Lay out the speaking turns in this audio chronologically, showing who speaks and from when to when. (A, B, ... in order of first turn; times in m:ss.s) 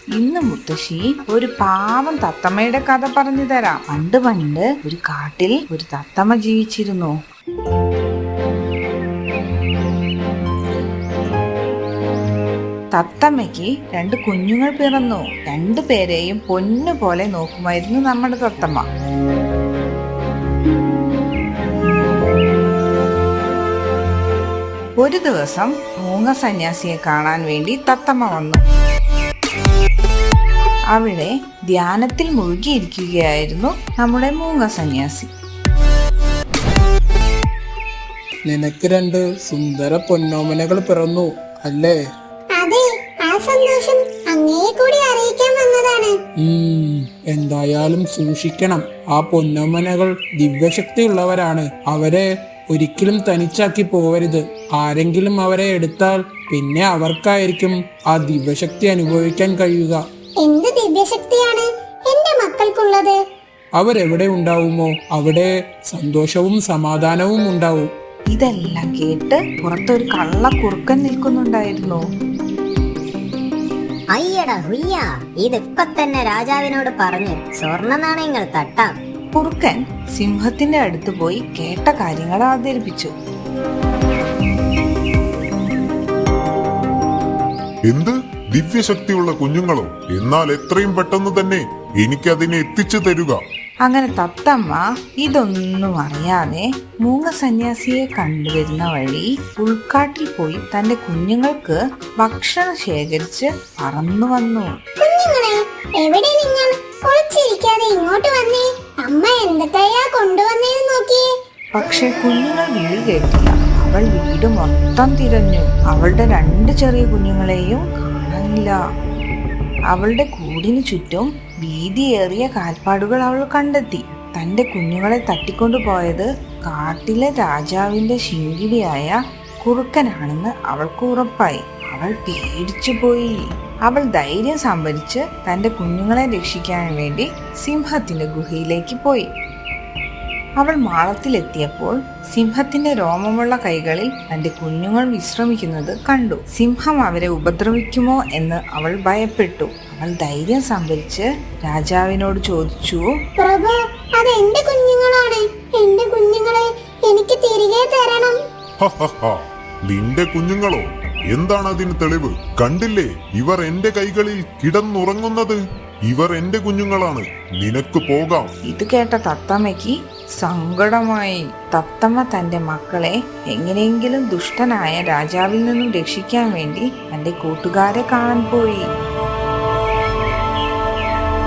0:00.2-0:07.2 A
0:13.0-0:18.9 A
0:25.0-0:28.6 A
0:30.9-0:35.3 A
0:38.4-0:42.0 B
0:42.6-0:46.1 C
0:46.4-1:00.0 B
1:00.4-1:03.2 C
1:03.8-1:07.9 B
1:08.3-1:12.0 A
1:14.1-1:18.9 D
1:19.3-1:23.1 A
1:27.9-1:33.4 E
1:33.9-1:44.7 A
1:45.0-1:51.2 C
1:51.8-1:58.8 A
1:59.9-2:13.3 A
2:13.9-2:19.3 A
2:20.6-2:33.0 A
2:33.4-2:38.4 C
2:38.8-2:48.5 E
2:48.7-2:58.8 A